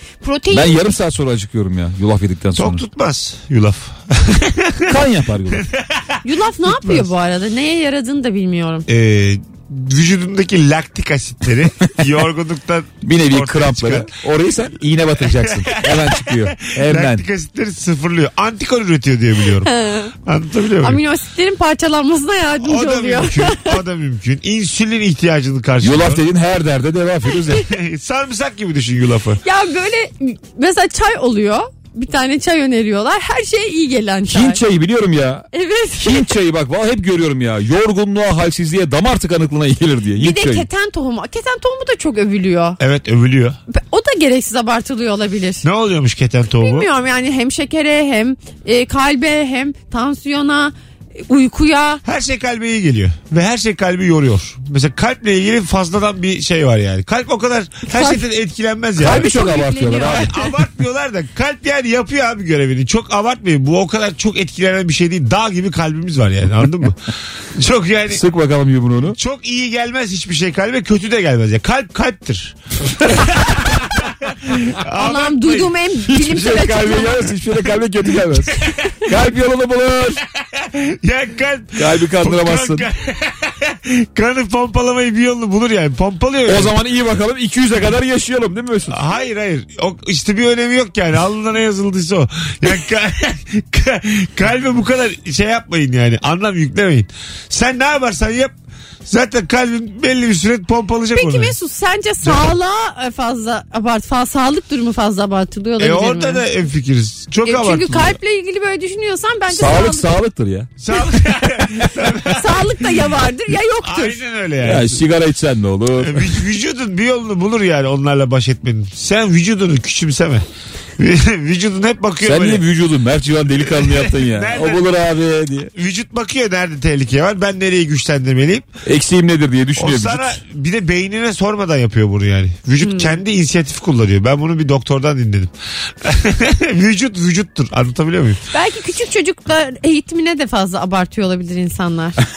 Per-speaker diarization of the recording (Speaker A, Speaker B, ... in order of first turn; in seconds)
Speaker A: 0.2-0.8, 6.2-8.9, 19.6-20.1, 20.8-23.8, 29.4-34.6, 35.5-36.3, 40.2-42.8, 43.7-45.6, 46.6-52.0, 57.9-58.2, 59.0-60.5, 75.0-77.3, 101.1-106.4, 107.5-110.2, 112.3-114.2, 132.8-133.1, 138.5-142.2
Speaker B: 0.5-2.9, 4.9-5.7, 13.0-17.2, 25.8-27.7, 34.3-35.5, 36.0-40.7, 59.0-60.3, 68.1-69.2, 76.1-78.5, 79.0-80.2, 81.8-82.9, 86.5-89.0, 109.5-110.7, 114.6-116.4, 122.2-125.7, 128.8-130.4
Speaker C: 2.6-4.9, 5.5-7.1, 8.9-14.1, 15.2-19.7, 20.2-21.0, 22.6-26.2, 27.6-29.4, 42.8-43.6, 45.6-46.9, 52.0-59.3, 60.1-68.2, 69.1-75.8, 78.3-78.9, 80.5-86.7, 88.9-98.5, 99.1-101.5, 102.2-102.5, 105.8-108.2, 110.8-112.8, 113.8-115.0, 116.0-120.5, 121.0-122.6, 123.7-125.0, 125.7-128.7, 129.8-138.4